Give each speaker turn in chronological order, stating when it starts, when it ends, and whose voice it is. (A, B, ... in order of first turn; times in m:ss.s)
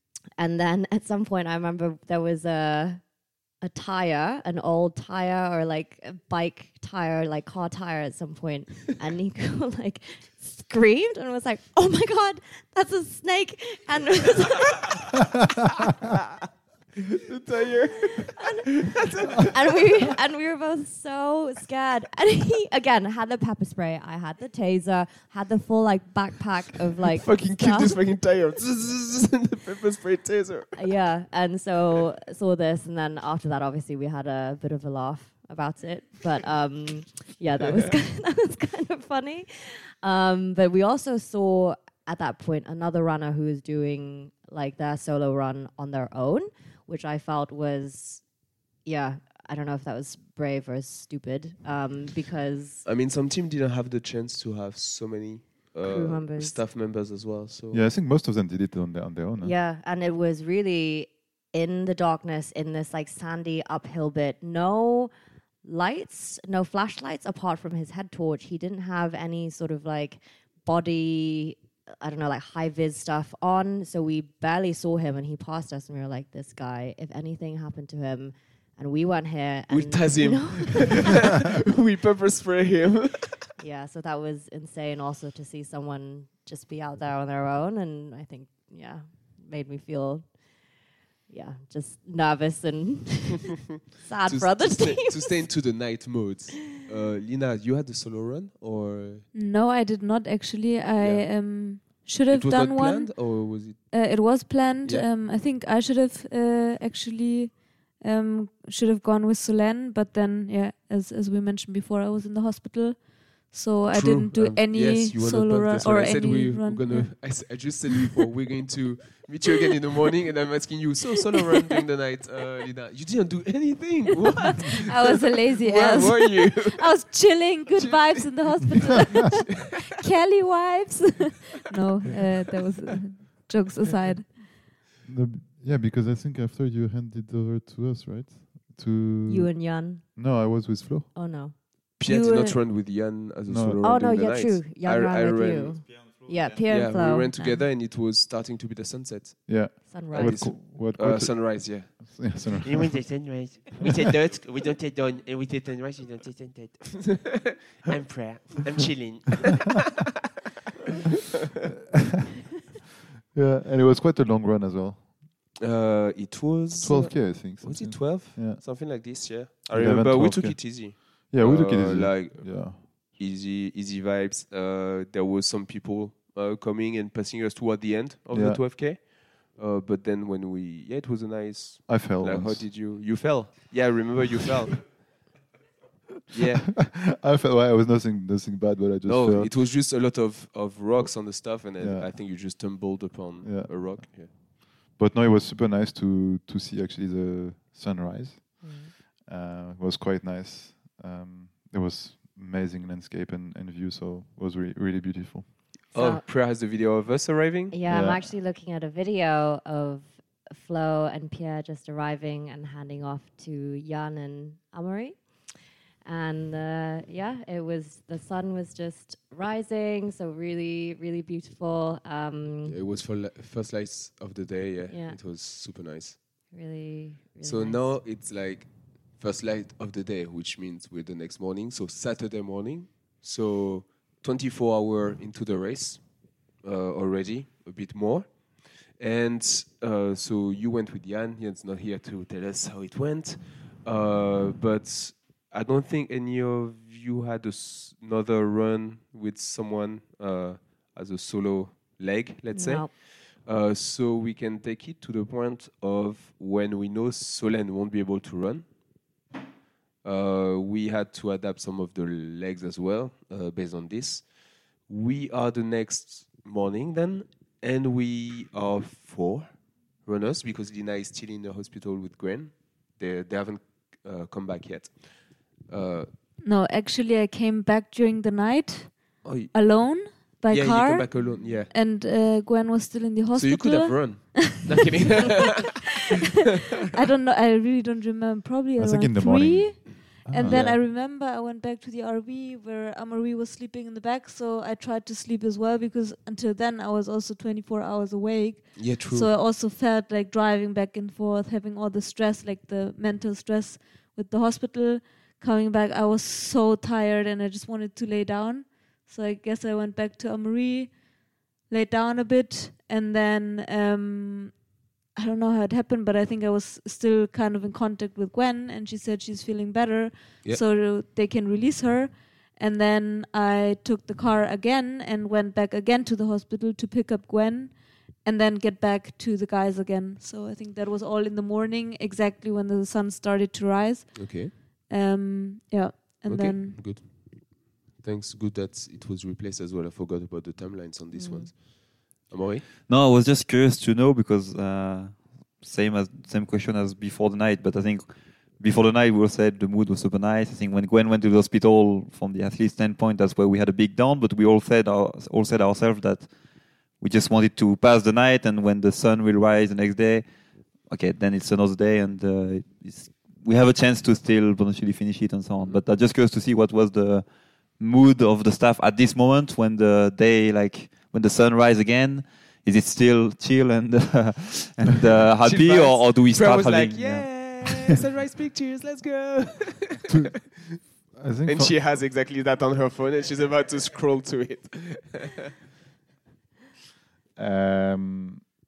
0:00.4-0:15.2 A
0:17.2-0:20.0 B
0:18.4-0:28.0 A
0:27.2-0:30.9 B
0:30.8-0:48.3 A
0:48.8-0:52.8 A
0:52.8-0:57.8 B
0:55.8-0:56.6 A
0:57.7-0:59.5 C
0:59.4-1:05.1 A
1:05.6-1:21.2 A
1:19.7-1:23.4 B
1:23.6-1:30.4 A
1:31.3-1:35.5 A
1:34.3-1:39.3 B
1:39.3-1:57.4 D
1:41.0-1:45.1 B
1:53.9-2:04.8 B
2:04.7-2:14.4 D
2:05.6-2:09.3 B
2:15.0-2:21.1 C
2:19.3-2:20.0 A
2:21.1-2:22.6 A
2:22.0-2:25.9 B
2:23.5-2:23.8 C
2:23.8-2:27.6 A
2:26.7-2:32.5 B
2:29.5-2:33.0 C
2:29.9-2:30.5 A
2:32.6-2:39.9 E
2:43.3-2:45.1 C
2:45.6-3:05.0 B
2:46.8-2:48.6 C
2:49.7-2:52.8 C
2:58.3-2:58.6 C
3:01.9-3:02.7 C
3:06.3-3:06.7 B
3:06.8-3:09.5 C
3:09.0-3:14.3 B
3:11.0-3:12.7 C
3:13.4-3:25.8 C
3:18.6-3:18.9 A
3:25.9-3:27.7 B
3:25.9-3:26.2 A
3:27.7-3:42.8 A
3:27.8-3:28.2 C
3:42.6-3:46.2 B
3:44.9-3:45.2 A
3:46.5-3:47.9 A
3:47.4-4:18.7 B
4:12.5-4:12.9 A
4:20.0-4:36.1 B
4:36.4-4:44.6 D
4:39.2-4:41.7 B
4:43.3-4:45.6 B
4:46.9-5:11.1 D
4:48.8-4:50.8 C
4:50.4-4:50.8 B
4:58.8-4:59.3 B
5:11.6-5:14.6 D
5:15.1-5:36.8 D
5:34.1-5:34.5 B
5:36.3-5:42.7 B
5:41.1-5:41.5 A
5:42.9-6:17.9 F
6:15.4-6:20.2 B
6:20.1-6:21.8 C
6:21.4-6:25.4 B
6:27.4-6:28.5 C